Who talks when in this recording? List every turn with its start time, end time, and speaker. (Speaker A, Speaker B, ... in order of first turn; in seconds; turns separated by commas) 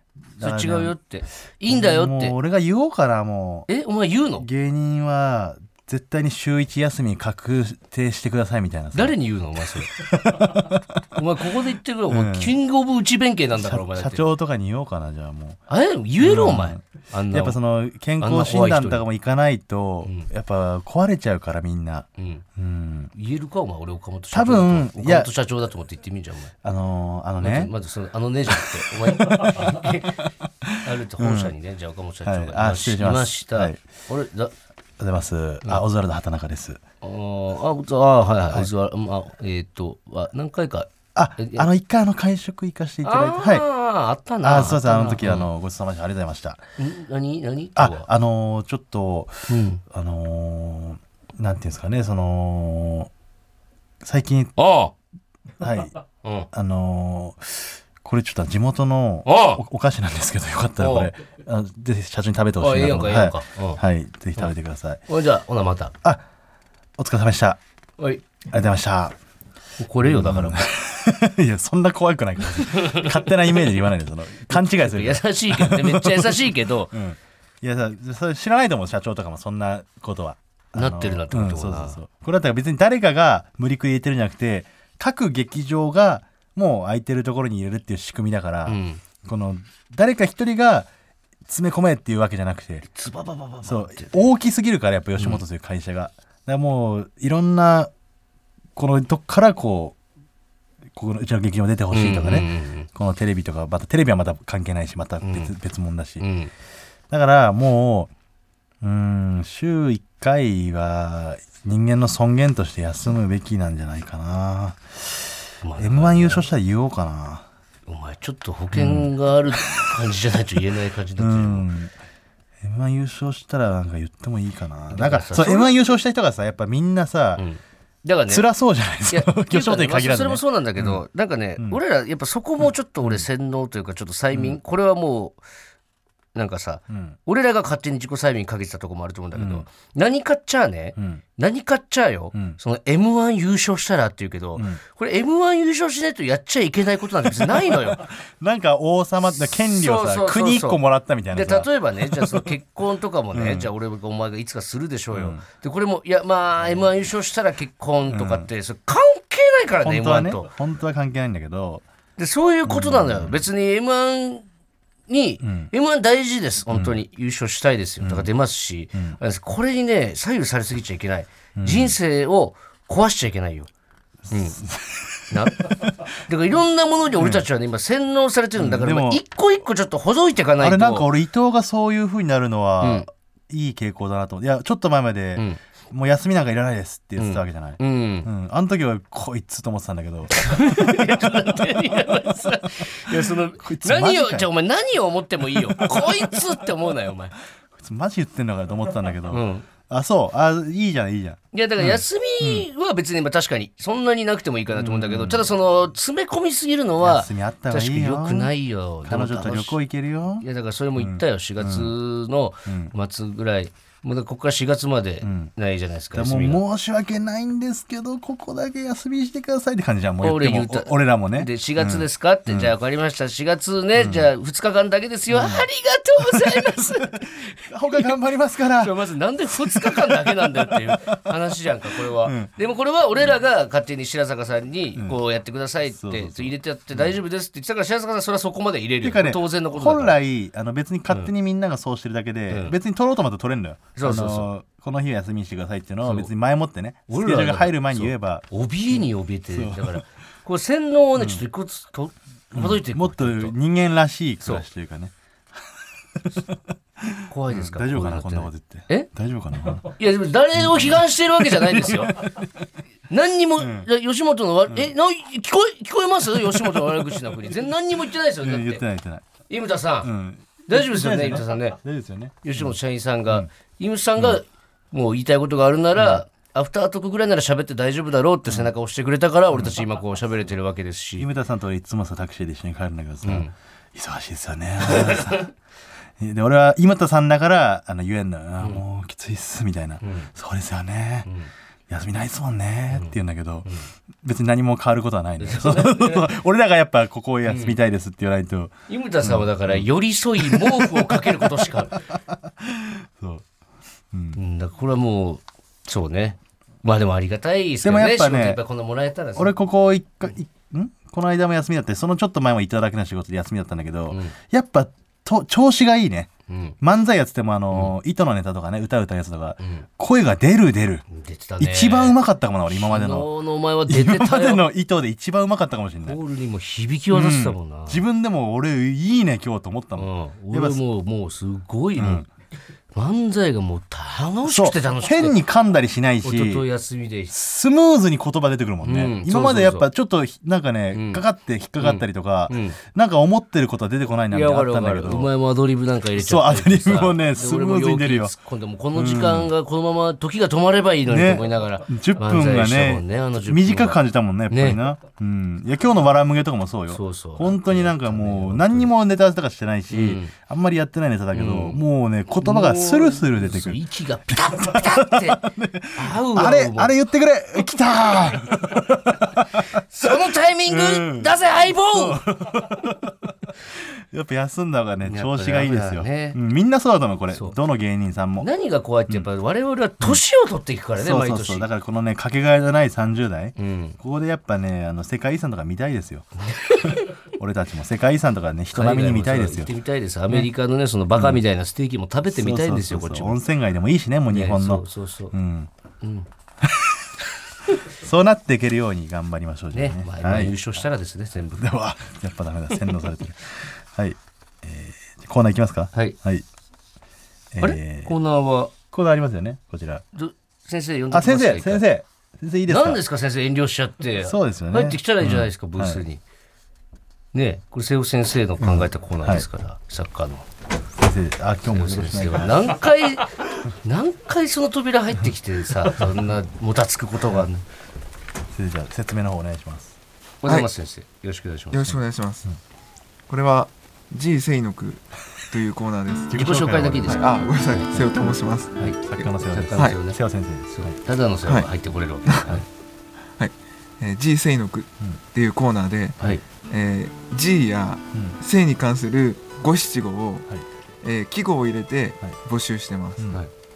Speaker A: 0.3-0.9, Speaker B: 0.4-2.4, Speaker A: 1.6-3.7, Speaker B: 3.7-4.5, Speaker A: 4.4-9.2, Speaker B: 8.9-9.9, Speaker A: 9.8-11.0, Speaker B: 11.1-14.2, Speaker A: 12.1-12.6, Speaker A: 13.5-15.6, Speaker B: 15.7-17.6, Speaker A: 16.2-23.1, Speaker B: 18.2-19.1, Speaker B: 22.2-22.4, Speaker B: 23.1-26.5, Speaker A: 24.3-25.3, Speaker A: 26.6-27.7, Speaker B: 27.4-30.3, Speaker A: 28.5-29.8, Speaker A: 30.6-31.5, Speaker B: 30.8-34.5, Speaker A: 32.2-33.8, Speaker A: 35.0-36.8, Speaker B: 37.0-41.7, Speaker A: 41.1-43.6, Speaker B: 43.0-45.5, Speaker A: 44.4-46.6, Speaker B: 46.8-48.1, Speaker A: 47.8-53.1, Speaker B: 49.5-49.8, Speaker A: 54.0-54.5, Speaker B: 54.6-54.9, Speaker A: 55.6-55.9, Speaker B: 56.2-56.5, Speaker A: 56.5-65.0, Speaker B: 59.2-59.6, Speaker B: 60.8-61.1, Speaker B: 62.6-63.8, Speaker B: 65.1-65.9, Speaker A: 67.0-67.6, Speaker B: 68.0-68.2, Speaker A: 68.5-69.1, Speaker B: 69.8-70.7, Speaker A: 70.0-90.9, Speaker B: 72.5-73.7, Speaker B: 74.5-76.9, Speaker B: 80.7-82.0, Speaker B: 88.7-89.0, Speaker A: 91.5-92.8, Speaker B: 92.8-94.2, Speaker A: 93.6-97.9, Speaker B: 95.2-95.4, Speaker A: 98.8-100.0, Speaker A: 100.9-106.2, Speaker B: 101.9-102.9, Speaker B: 105.2-105.5, Speaker B: 106.2-106.5, Speaker A: 107.1-108.1, Speaker A: 108.8-117.4, Speaker B: 115.6-116.5, Speaker B: 117.8-121.7, Speaker A: 118.7-120.0, Speaker A: 121.2-121.9, Speaker A: 122.6-127.4, Speaker B: 124.9-125.7, Speaker B: 127.3-128.5, Speaker A: 128.3-131.0, Speaker B: 129.1-135.4, Speaker A: 133.0-133.3, Speaker A: 134.3-134.6, Speaker B: 136.3-148.1, Speaker A: 136.9-137.2, Speaker A: 139.3-139.7, Speaker A: 140.9-141.2, Speaker A: 142.3-142.6, Speaker A: 144.6-144.8, Speaker A: 147.5-152.6, Speaker B: 149.2-160.5, Speaker A: 153.3-153.7, Speaker A: 155.1-155.4, Speaker A: 156.6-156.9, Speaker A: 158.1-158.5, Speaker A: 159.8-161.8, Speaker B: 162.2-164.4, Speaker A: 162.6-163.5, Speaker B: 165.1-173.7, Speaker A: 165.4-165.7, Speaker A: 166.7-167.0, Speaker A: 168.0-168.3, Speaker A: 171.6-172.0, Speaker A: 174.3-176.0, Speaker B: 174.3-174.6, Speaker B: 175.3-181.1, Speaker A: 177.2-177.4, Speaker A: 178.6-179.2, Speaker A: 180.6-191.2, Speaker B: 182.8-183.1, Speaker B: 187.2-188.3, Speaker B: 190.3-197.3, Speaker A: 193.1-194.5, Speaker A: 195.5-196.4, Speaker A: 197.7-202.7, Speaker B: 199.3-199.7, Speaker B: 201.5-209.8, Speaker A: 204.7-205.5, Speaker A: 207.0-211.9, Speaker B: 210.4-216.6, Speaker A: 212.6-212.9, Speaker A: 215.2-215.5, Speaker A: 216.1-222.8, Speaker B: 220.2-240.2, Speaker A: 223.9-224.3, Speaker A: 225.3-225.7, Speaker A: 226.3-231.4, Speaker A: 232.0-232.5, Speaker A: 235.8-237.2, Speaker A: 239.0-250.0, Speaker B: 242.5-242.8, Speaker B: 243.9-244.5, Speaker B: 246.0-246.3, Speaker B: 247.1-253.6, Speaker A: 251.2-251.4, Speaker A: 252.5-255.1, Speaker B: 254.4-254.7, Speaker A: 256.3-259.9, Speaker B: 257.3-259.1, Speaker B: 259.9-262.2, Speaker A: 260.5-262.5, Speaker B: 263.1-268.8, Speaker A: 263.6-263.9, Speaker A: 268.4-269.2, Speaker B: 269.5-270.1, Speaker A: 270.0-272.8, Speaker B: 270.7-271.8, Speaker B: 272.4-281.3, Speaker A: 276.0-276.2, Speaker A: 279.5-279.8, Speaker A: 281.1-285.5, Speaker B: 283.2-283.5, Speaker B: 284.9-285.3, Speaker A: 286.2-291.3, Speaker B: 290.0-290.3, Speaker B: 291.2-291.5, Speaker A: 291.9-299.9, Speaker B: 295.4-296.4, Speaker B: 297.4-297.8, Speaker B: 298.9-302.1, Speaker A: 300.4-303.4, Speaker A: 304.1-304.4, Speaker B: 304.3-309.6, Speaker A: 307.8-308.6, Speaker A: 309.3-316.3, Speaker B: 314.1-314.4, Speaker B: 316.5-316.8, Speaker A: 316.8-321.1, Speaker B: 319.6-319.9, Speaker B: 321.1-324.7, Speaker A: 321.6-323.3, Speaker A: 323.9-326.2, Speaker B: 326.0-328.0, Speaker A: 327.1-330.8, Speaker B: 329.9-332.3, Speaker A: 332.0-332.3, Speaker B: 332.9-335.4, Speaker A: 334.4-336.7, Speaker B: 336.2-337.3, Speaker A: 337.3-345.3, Speaker B: 338.8-339.9, Speaker B: 340.9-341.2, Speaker B: 341.8-342.8, Speaker B: 344.3-354.8, Speaker A: 346.1-348.3, Speaker A: 348.9-349.5, Speaker A: 351.0-370.1, Speaker B: 356.9-358.9, Speaker B: 359.9-360.3, Speaker B: 361.3-361.8, Speaker B: 362.4-366.9, Speaker B: 369.7-372.2, Speaker A: 370.6-378.5, Speaker B: 375.0-376.4, Speaker B: 377.3-377.6, Speaker B: 378.4-381.7, Speaker A: 380.9-386.3, Speaker B: 383.6-384.0, Speaker B: 386.4-387.1, Speaker A: 386.8-389.7, Speaker B: 388.7-393.4, Speaker A: 391.1-391.4, Speaker A: 392.3-395.7, Speaker B: 394.3-395.3, Speaker B: 396.0-396.3, Speaker A: 396.6-397.0, Speaker A: 397.9-400.6, Speaker B: 399.7-401.7, Speaker A: 401.5-406.4, Speaker A: 407.5-408.2, Speaker B: 407.6-408.7, Speaker A: 408.9-410.0, Speaker B: 410.1-411.9, Speaker A: 411.1-413.0, Speaker B: 412.7-416.2, Speaker A: 414.2-416.0, Speaker B: 417.3-420.4, Speaker A: 418.6-419.5, Speaker A: 420.9-422.8, Speaker B: 421.7-427.6, Speaker A: 428.5-429.9, Speaker B: 430.4-432.0, Speaker C: 431.7-432.5, Speaker C: 433.3-436.3, Speaker A: 436.3-437.3, Speaker B: 436.3-437.9, Speaker C: 437.0-440.0, Speaker B: 438.8-442.6, Speaker A: 438.8-441.0, Speaker C: 443.4-450.5, Speaker A: 448.1-448.4, Speaker C: 451.0-453.3, Speaker A: 453.2-453.4